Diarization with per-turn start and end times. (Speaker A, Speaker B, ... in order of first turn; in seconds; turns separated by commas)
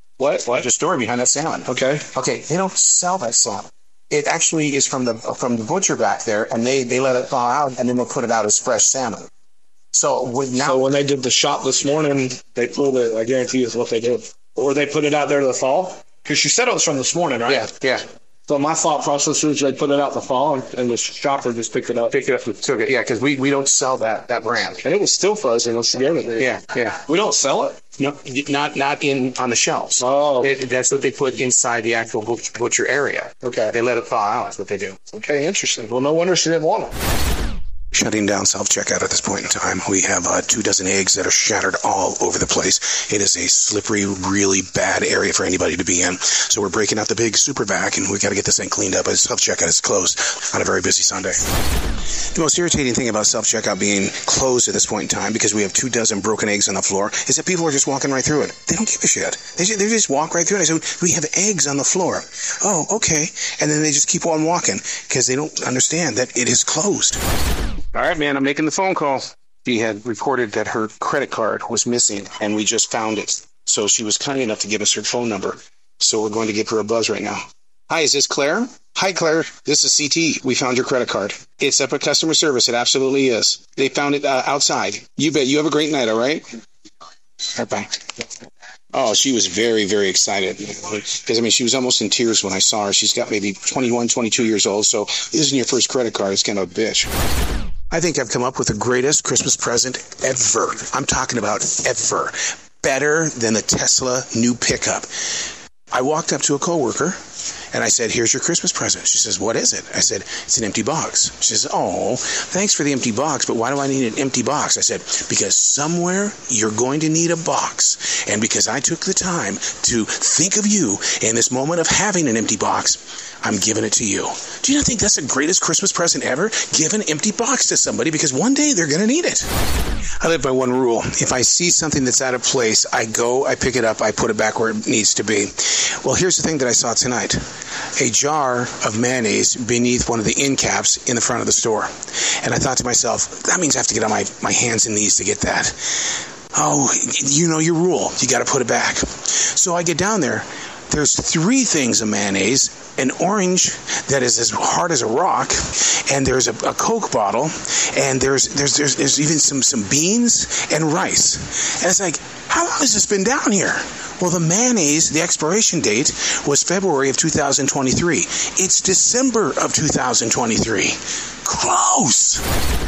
Speaker A: 0.2-0.6, Speaker B: 0.5-9.3, Speaker A: 1.7-2.0, Speaker B: 9.9-10.8, Speaker A: 10.7-17.7, Speaker B: 17.4-18.0, Speaker A: 18.5-22.1, Speaker B: 22.1-24.9, Speaker A: 24.9-26.5, Speaker B: 26.4-27.0, Speaker A: 27.0-27.8, Speaker B: 28.0-35.0, Speaker A: 30.0-30.5, Speaker A: 33.4-33.7, Speaker A: 35.1-36.9, Speaker B: 37.9-51.4, Speaker B: 52.3-67.2, Speaker B: 67.9-86.4, Speaker B: 87.5-88.0, Speaker B: 88.9-97.1, Speaker B: 97.9-107.2, Speaker B: 107.7-129.5, Speaker B: 130.2-137.4, Speaker B: 137.9-172.4